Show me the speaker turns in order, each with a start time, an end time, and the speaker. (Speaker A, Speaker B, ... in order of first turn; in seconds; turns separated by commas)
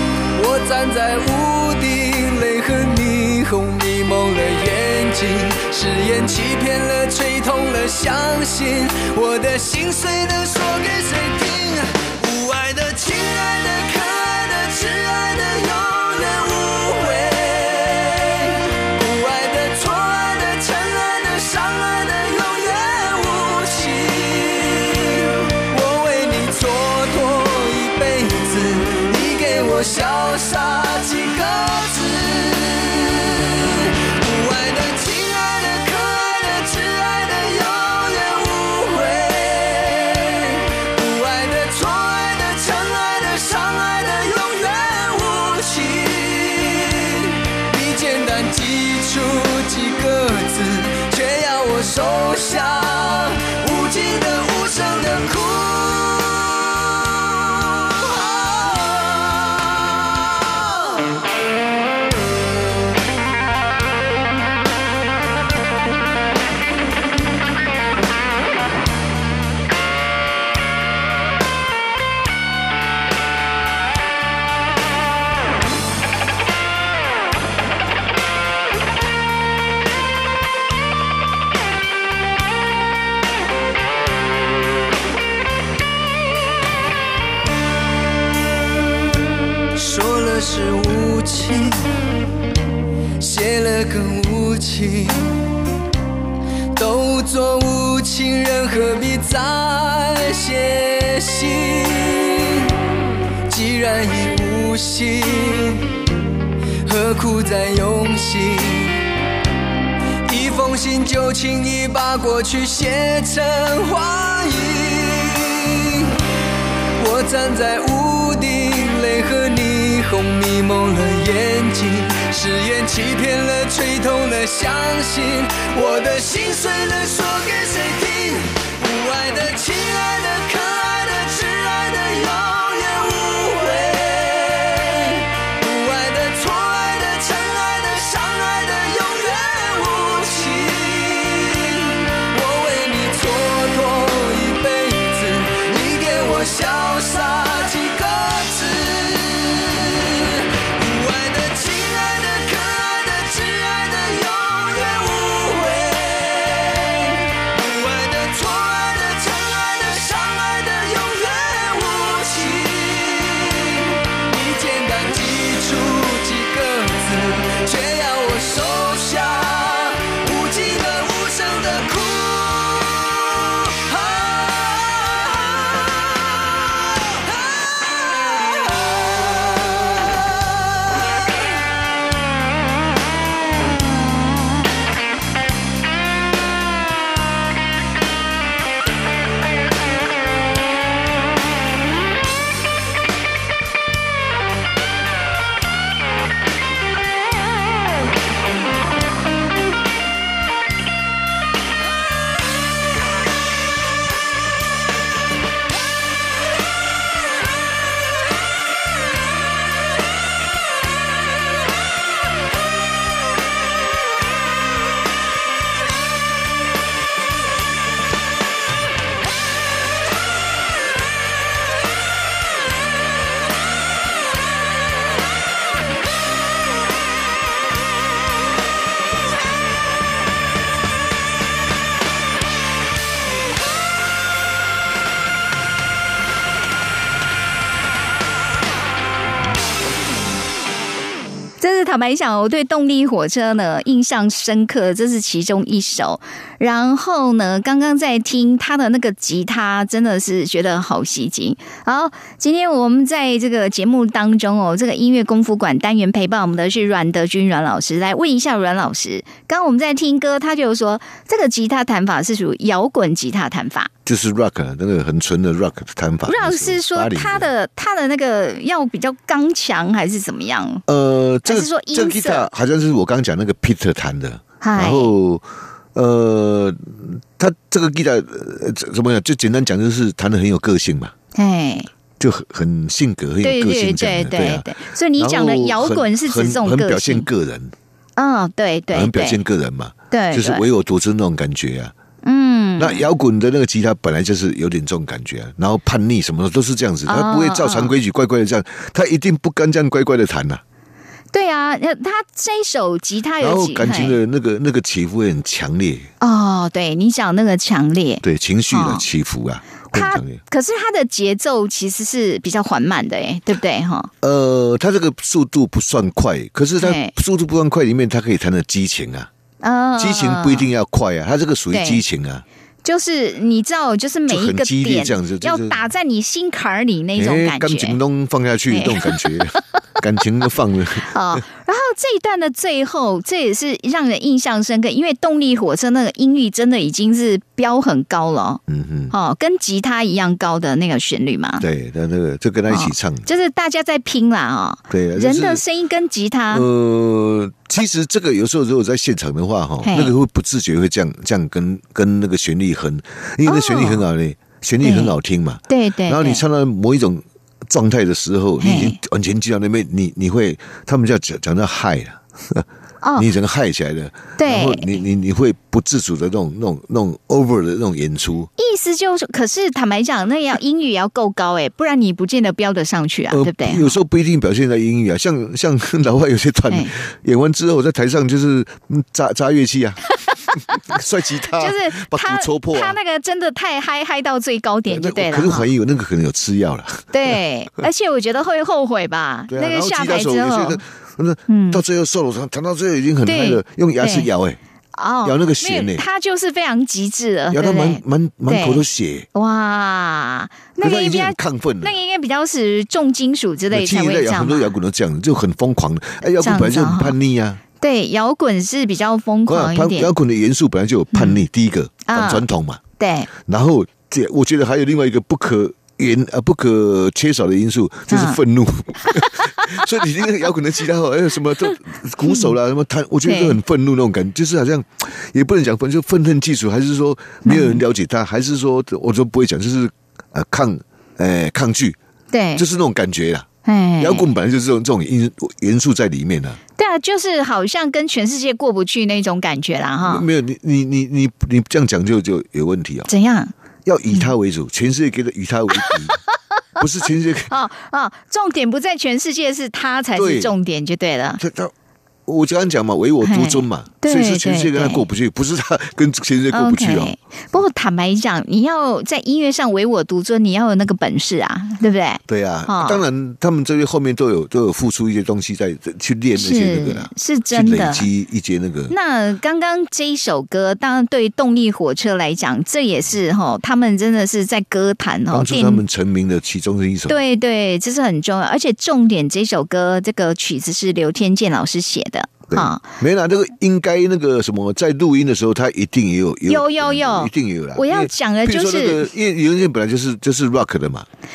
Speaker A: 0.3-59.7, Speaker A: 89.8-91.9, Speaker A: 93.2-95.4, Speaker A: 96.8-102.8, Speaker A: 103.5-105.9, Speaker A: 106.8-109.1, Speaker A: 110.2-116.2, Speaker A: 117.0-176.4, Speaker A: 177.0-179.8, Speaker B: 241.6-263.9, Speaker C: 264.1-267.5, Speaker B: 266.3-270.8, Speaker C: 270.9-281.1, Speaker B: 271.4-272.5, Speaker B: 274.6-275.1, Speaker B: 281.4-281.9, Speaker C: 282.2-287.7, Speaker B: 283.4-287.3, Speaker B: 288.2-289.4, Speaker C: 288.9-291.9, Speaker B: 290.1-290.6, Speaker B: 292.2-293.0, Speaker C: 292.8-300.6, Speaker B: 297.1-297.9, Speaker B: 301.3-304.2, Speaker C: 303.4-306.1, Speaker B: 306.2-309.1, Speaker C: 308.2-310.4, Speaker B: 309.9-314.1, Speaker C: 314.2-319.3, Speaker B: 316.8-317.1, Speaker B: 319.6-320.7, Speaker C: 320.0-322.4, Speaker B: 321.7-322.0, Speaker B: 322.8-328.0, Speaker C: 324.3-325.8, Speaker C: 327.1-331.2, Speaker B: 328.7-329.6, Speaker B: 331.0-341.6, Speaker C: 338.7-339.1, Speaker C: 341.6-343.3, Speaker B: 342.7-346.7, Speaker C: 344.9-345.6, Speaker C: 346.5-362.7, Speaker B: 349.8-350.1, Speaker B: 353.4-354.0, Speaker B: 354.8-355.1, Speaker B: 355.7-356.4, Speaker B: 358.6-359.0, Speaker B: 363.0-363.3, Speaker C: 363.2-368.5, Speaker B: 364.4-365.0, Speaker B: 368.6-374.0, Speaker C: 373.3-380.0, Speaker C: 380.5-383.0, Speaker B: 381.5-385.7, Speaker C: 384.9-387.4, Speaker B: 387.1-390.8, Speaker C: 389.5-394.6, Speaker B: 391.5-391.8, Speaker B: 393.2-394.3, Speaker B: 394.9-404.8, Speaker C: 395.2-396.1, Speaker C: 397.5-399.3, Speaker C: 400.8-402.0, Speaker C: 403.7-407.6, Speaker B: 406.4-407.2, Speaker B: 407.8-410.1, Speaker C: 409.5-412.8, Speaker B: 411.1-411.4, Speaker B: 412.1-412.4, Speaker B: 413.0-413.3, Speaker C: 413.4-432.0, Speaker B: 418.1-418.4, Speaker B: 422.2-422.5, Speaker B: 423.2-423.6, Speaker B: 427.4-427.8, Speaker B: 432.3-432.6, Speaker C: 432.6-433.5, Speaker B: 433.6-434.3, Speaker C: 434.0-436.6, Speaker B: 436.8-440.3, Speaker C: 440.0-443.1, Speaker B: 443.1-443.5, Speaker C: 443.9-446.2, Speaker C: 446.8-447.5, Speaker B: 447.5-451.4, Speaker C: 450.1-450.5, Speaker C: 451.4-451.7, Speaker C: 452.3-457.1, Speaker B: 453.2-455.1, Speaker B: 456.5-463.0, Speaker C: 462.3-468.9, Speaker B: 466.4-468.1, Speaker B: 468.9-475.8, Speaker C: 475.3-477.2, Speaker B: 477.1-482.8, Speaker C: 482.5-491.1, Speaker B: 486.5-489.1